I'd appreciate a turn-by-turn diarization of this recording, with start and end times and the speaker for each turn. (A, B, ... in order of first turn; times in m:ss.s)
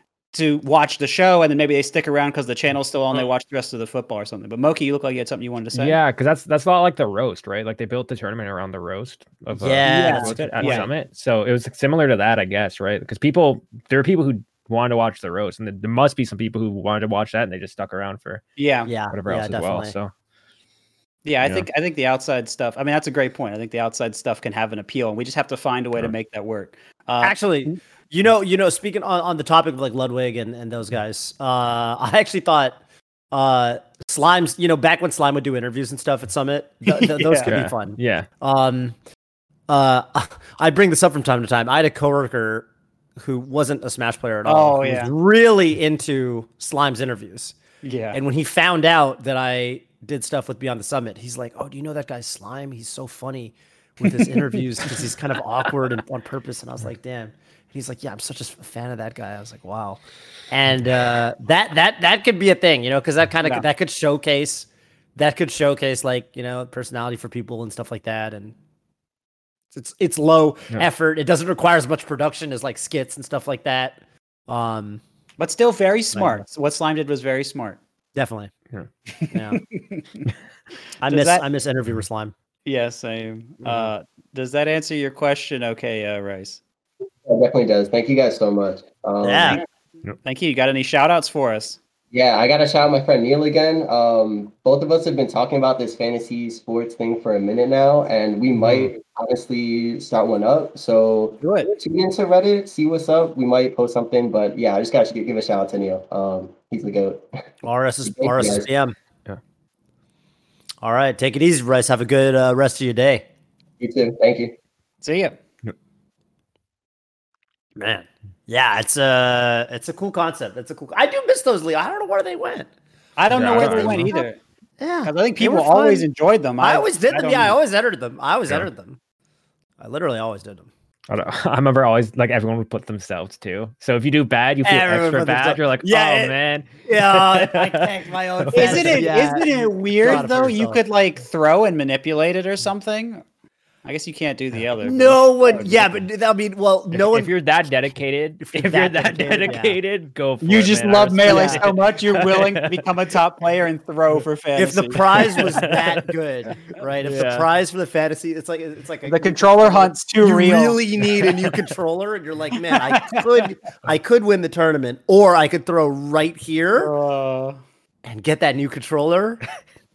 0:00.3-0:06.0 A
0:05.7-0:18.4 B
0:09.5-0:10.9 C
0:09.8-0:10.9 A
0:18.6-0:18.9 A
0:18.8-0:19.9 C
0:19.1-0:20.1 B
0:21.2-0:27.8 A
0:27.2-0:32.8 C
0:33.3-0:39.0 C
0:36.9-0:37.5 A
0:37.4-0:38.3 B
0:39.7-0:42.7 C
0:43.2-0:47.6 C
0:44.4-0:45.1 A
0:47.8-0:48.2 A
0:48.1-1:08.5 C
1:09.7-1:15.0 C
1:15.4-1:17.8 A
1:16.1-1:16.4 C
1:18.1-1:18.5 C
1:19.2-1:20.3 A
1:19.3-1:19.6 C
1:21.0-1:22.3 C
1:21.1-1:21.4 A
1:22.6-1:26.6 A
1:23.6-1:23.9 C
1:27.2-1:29.6 D
1:29.2-1:29.6 C
1:30.2-1:31.8 A
1:32.1-1:47.2 D
1:38.6-1:38.9 C
1:41.4-1:41.7 A
1:47.6-1:48.9 C
1:48.0-1:48.7 D
1:50.8-1:53.2 C
1:53.8-1:54.6 D
1:55.0-1:55.4 A
1:57.8-2:02.7 C
2:03.2-2:04.4 A
2:03.3-2:04.2 C
2:03.3-2:04.1 B
2:04.8-2:06.0 C
2:05.0-2:07.5 A
2:06.6-2:09.0 C
2:09.8-2:10.7 C
2:11.1-2:19.1 B
2:14.6-2:20.8 C
2:18.5-2:23.2 A
2:23.8-2:25.8 A
2:24.8-2:27.3 C
2:27.1-2:32.8 B
2:28.4-2:29.8 C
2:30.4-2:35.5 A
2:31.2-2:31.7 C
2:34.6-2:46.9 C
2:35.6-2:36.0 B
2:37.0-2:37.4 B
2:39.0-2:40.8 A
2:42.7-2:43.4 A
2:46.8-2:47.6 A
2:48.0-2:49.4 C